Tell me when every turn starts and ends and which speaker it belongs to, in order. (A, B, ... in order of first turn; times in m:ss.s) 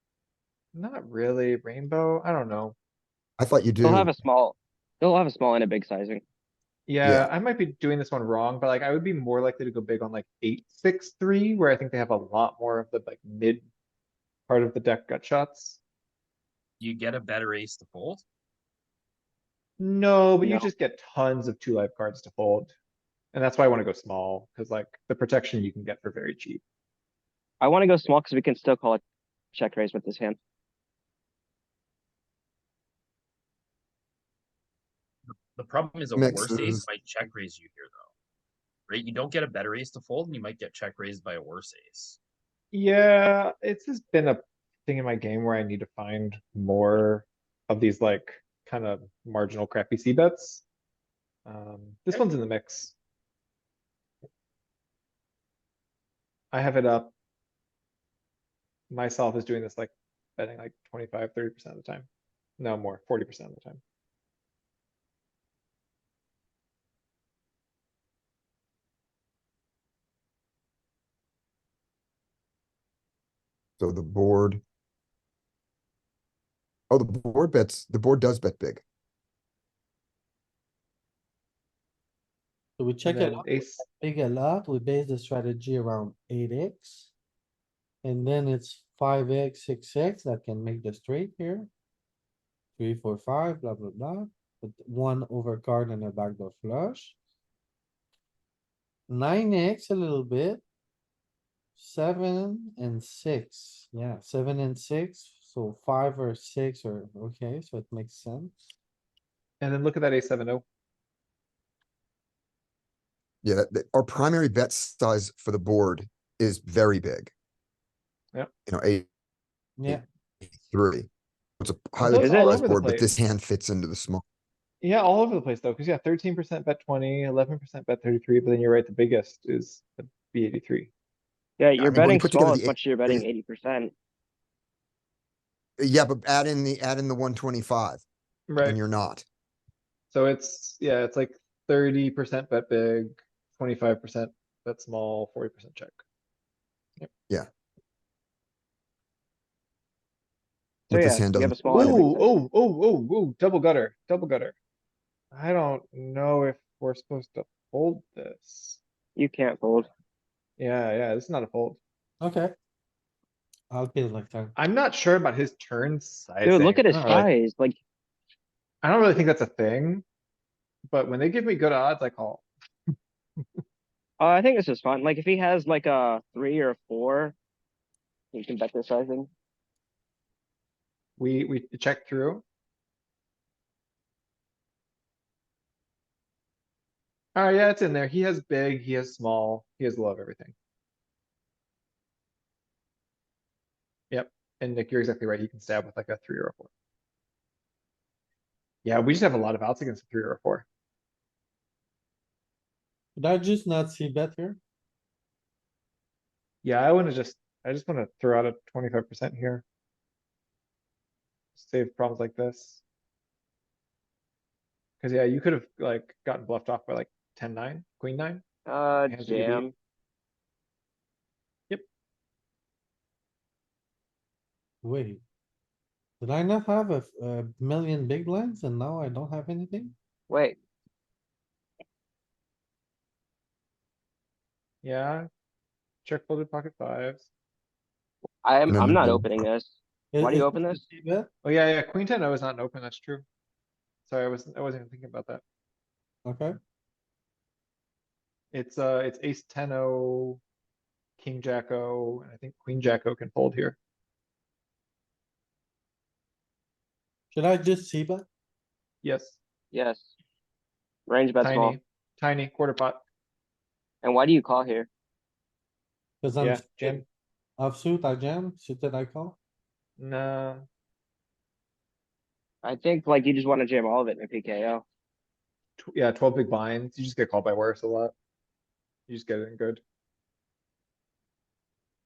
0:00.7-0:02.8 A
0:03.4-0:04.1 B
0:03.8-0:06.2 C
0:06.9-0:13.6 A
0:07.0-0:07.3 B
0:14.5-0:15.8 A
0:16.8-0:18.2 D
0:19.8-0:22.7 A
0:23.3-0:26.6 A
0:27.6-0:29.0 C
0:29.5-0:30.4 C
0:35.6-0:38.1 D
0:36.2-0:36.8 B
0:38.9-0:42.2 D
0:42.7-0:50.6 A
0:51.4-0:52.9 A
0:56.5-0:57.1 A
0:58.9-1:02.1 A
1:02.6-1:03.8 A
1:13.8-1:14.6 B
1:16.9-1:18.8 B
1:22.8-1:27.1 E
1:23.0-1:23.8 A
1:28.0-1:31.7 E
1:32.8-1:37.2 E
1:39.1-1:40.6 E
1:41.8-1:48.7 E
1:49.6-1:50.6 A
1:53.4-1:57.3 B
1:58.7-1:59.1 B
1:59.8-2:00.0 E
1:59.9-2:01.1 B
2:01.6-2:04.2 B
2:02.0-2:03.1 A
2:02.1-2:02.7 C
2:04.8-2:10.9 A
2:11.6-2:13.9 C
2:11.8-2:13.2 B
2:15.8-2:18.0 B
2:18.5-2:18.8 A
2:18.6-2:19.2 B
2:20.1-2:26.0 A
2:30.9-2:32.0 B
2:30.9-2:32.3 C
2:31.6-2:34.5 A
2:35.3-2:38.8 A
2:39.2-2:39.9 C
2:40.6-2:41.8 A
2:42.2-2:42.5 E
2:43.7-2:44.5 E
2:44.6-2:47.2 A
2:46.4-2:47.8 C
2:46.9-2:47.2 E
2:48.8-2:50.0 A
2:50.9-2:52.4 A
2:54.2-2:57.3 C
2:58.3-2:59.3 C
3:01.2-3:02.4 A
3:07.3-3:10.5 A
3:14.1-3:16.7 A
3:18.8-3:20.6 A
3:23.2-3:24.6 E
3:26.6-3:29.6 A
3:31.6-3:32.8 A
3:35.0-3:38.4 A
3:38.6-3:39.7 C
3:39.1-3:39.7 A
3:44.8-3:45.2 E
3:46.2-3:49.9 E
3:50.3-3:50.6 C
3:54.8-3:55.3 A
3:56.0-3:57.3 A
3:58.4-4:00.8 C
3:58.7-3:59.4 B
4:00.1-4:01.3 E
4:01.4-4:03.2 A
4:04.1-4:05.4 A
4:06.2-4:06.5 E
4:08.5-4:10.4 A
4:11.2-4:13.8 A
4:17.3-4:18.2 E
4:19.0-4:19.4 A
4:19.7-4:20.1 C
4:21.1-4:21.8 C
4:21.4-4:23.0 A
4:24.0-4:24.9 C
4:26.2-4:27.0 E
4:26.4-4:27.0 A
4:27.6-4:29.4 E
4:30.0-4:30.7 A
4:32.6-4:34.8 C
4:35.8-4:38.1 A
4:39.1-4:39.8 A